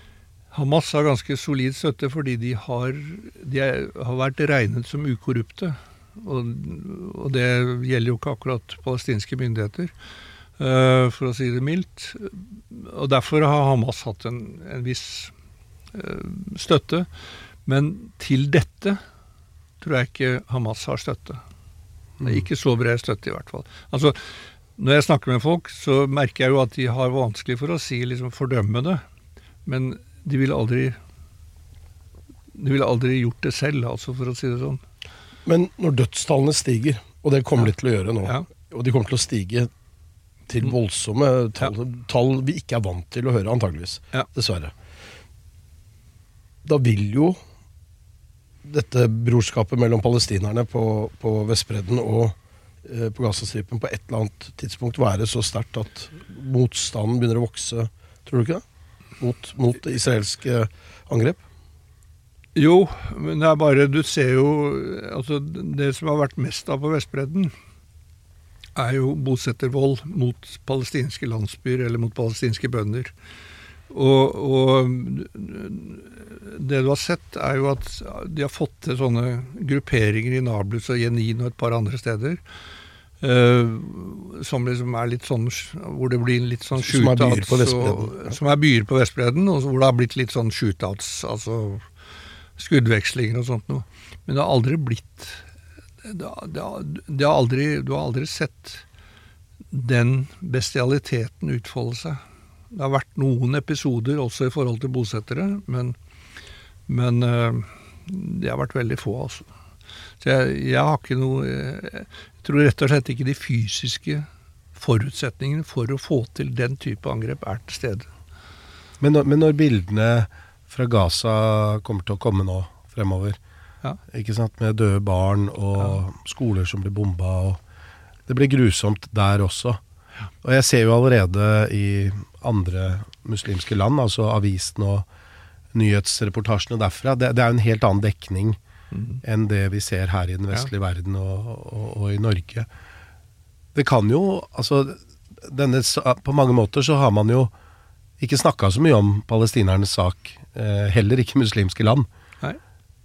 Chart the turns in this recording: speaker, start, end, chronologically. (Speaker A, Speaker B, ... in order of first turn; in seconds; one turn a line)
Speaker A: 0.5-9.9
Speaker A: 10.6-15.3
Speaker A: 15.9-17.1
Speaker A: 17.7-19.0
Speaker A: 19.8-21.4
Speaker A: 22.2-24.2
Speaker A: 24.8-29.0
Speaker A: 29.7-31.0
Speaker A: 32.5-34.8
Speaker B: 35.5-39.7
Speaker B: 40.5-44.7
Speaker B: 46.6-47.4
Speaker B: 48.6-58.6
Speaker B: 59.2-61.4
Speaker A: 62.6-67.5
Speaker A: 68.8-73.1
Speaker A: 73.9-82.4
Speaker A: 83.2-91.8
Speaker B: 86.8-88.3
Speaker A: 92.6-95.4
Speaker A: 96.0-98.8
Speaker A: 99.7-102.2
Speaker A: 102.7-106.0
Speaker A: 106.9-109.5
Speaker A: 110.2-118.1
Speaker C: 119.0-123.4
Speaker C: 124.1-127.6
Speaker C: 128.3-129.8
Speaker C: 130.4-135.1
Speaker C: 135.7-138.6
Speaker A: 138.9-139.2
Speaker C: 139.2-142.7
Speaker C: 143.8-147.5
Speaker C: 148.2-152.1